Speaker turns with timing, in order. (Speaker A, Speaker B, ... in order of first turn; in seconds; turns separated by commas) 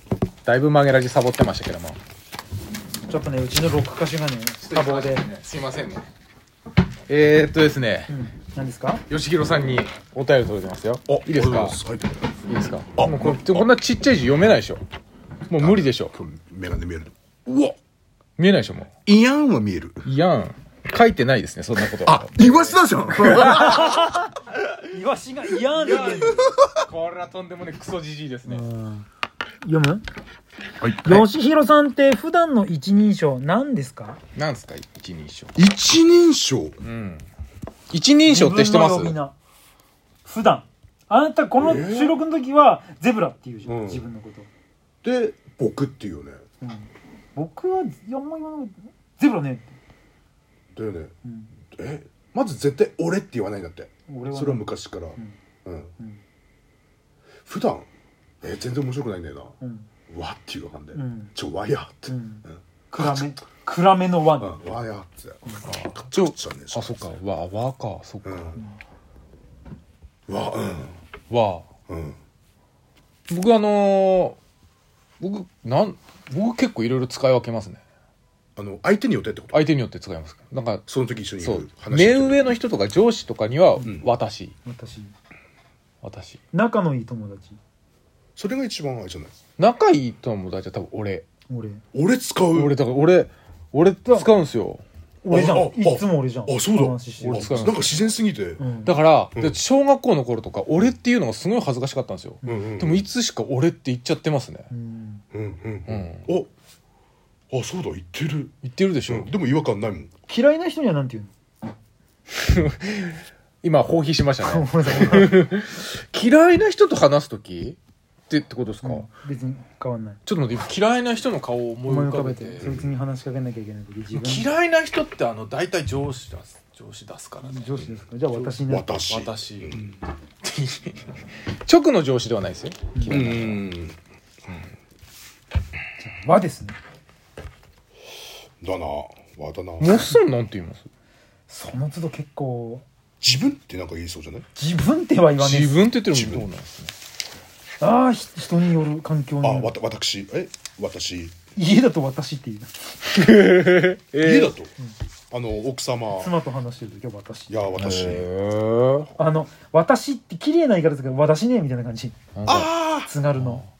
Speaker A: 0.4-2.0, Speaker B: 3.1-5.2, Speaker A: 4.6-6.0, Speaker A: 7.1-8.1, Speaker B: 8.1-9.0, Speaker A: 9.1-11.8, Speaker C: 11.1-12.3, Speaker A: 12.5-14.8, Speaker C: 12.9-13.7, Speaker A: 15.5-16.1, Speaker C: 15.6-17.8, Speaker A: 18.4-18.9, Speaker C: 19.1-20.1, Speaker A: 20.0-24.0, Speaker C: 21.9-24.2, Speaker B: 23.4-24.3, Speaker B: 24.9-26.5, Speaker A: 25.8-28.6, Speaker C: 25.9-26.9, Speaker B: 28.4-29.1, Speaker B: 29.6-30.0, Speaker C: 30.8-31.2, Speaker B: 31.0-34.2, Speaker A: 34.3-35.5, Speaker C: 35.5-36.8, Speaker A: 36.8-37.2, Speaker A: 37.9-39.1, Speaker B: 38.2-39.3, Speaker B: 40.2-44.5, Speaker C: 41.6-42.2, Speaker C: 43.6-44.0, Speaker C: 45.0-46.4, Speaker B: 46.6-49.7, Speaker C: 50.7-51.1, Speaker B: 51.2-51.5, Speaker C: 51.7-55.9, Speaker B: 54.1-55.4, Speaker C: 57.4-57.9, Speaker C: 58.4-59.5, Speaker B: 59.6-59.9, Speaker C: 60.1-63.3, Speaker B: 60.9-61.3, Speaker B: 62.1-64.6, Speaker C: 64.4-67.1, Speaker A: 65.6-68.6, Speaker C: 68.2-68.6, Speaker C: 70.3-71.0, Speaker A: 71.3-71.7, Speaker C: 71.9-72.2, Speaker A: 73.3-74.4, Speaker A: 75.2-77.8, Speaker C: 78.5-79.6, Speaker A: 79.5-80.8, Speaker C: 80.9-82.5, Speaker A: 81.4-84.5, Speaker C: 83.8-84.1, Speaker B: 84.6-85.1, Speaker A: 86.0-86.4, Speaker B: 86.5-87.6, Speaker C: 88.3-89.3, Speaker A: 89.6-91.2, Speaker B: 91.5-91.8, Speaker C: 91.9-92.8, Speaker A: 92.5-94.8, Speaker B: 94.0-94.3, Speaker B: 95.2-97.7, Speaker C: 95.3-98.6, Speaker A: 97.2-98.0, Speaker B: 98.6-98.9, Speaker A: 98.8-104.7, Speaker B: 102.4-102.7, Speaker C: 102.4-103.1, Speaker B: 104.7-105.2, Speaker C: 105.3-106.5, Speaker A: 105.9-106.3, Speaker C: 107.5-108.5, Speaker A: 108.6-109.3, Speaker C: 109.1-110.1, Speaker B: 110.3-111.3, Speaker A: 112.4-117.8, Speaker B: 114.4-115.3, Speaker A: 118.3-119.1, Speaker B: 118.8-120.2, Speaker A: 120.2-122.6, Speaker B: 121.8-124.5, Speaker C: 122.6-122.9, Speaker A: 124.1-129.9, Speaker B: 127.4-129.0, Speaker C: 128.7-129.9, Speaker A: 130.4-133.6, Speaker B: 132.9-133.2, Speaker C: 133.1-134.0, Speaker B: 136.0-136.8, Speaker C: 138.6-140.1, Speaker A: 139.8-140.9, Speaker B: 141.5-142.8, Speaker C: 143.2-144.4, Speaker B: 144.5-145.8, Speaker A: 145.4-146.9, Speaker C: 146.1-146.5, Speaker B: 147.8-149.7, Speaker C: 149.4-151.3, Speaker B: 151.5-152.8, Speaker A: 153.1-154.5, Speaker C: 154.2-154.7, Speaker C: 155.3-156.3, Speaker B: 156.1-157.6, Speaker C: 157.5-158.3, Speaker A: 157.8-159.1, Speaker B: 159.2-162.2, Speaker A: 162.4-162.7, Speaker C: 162.4-163.1, Speaker B: 163.0-163.6, Speaker A: 163.3-163.7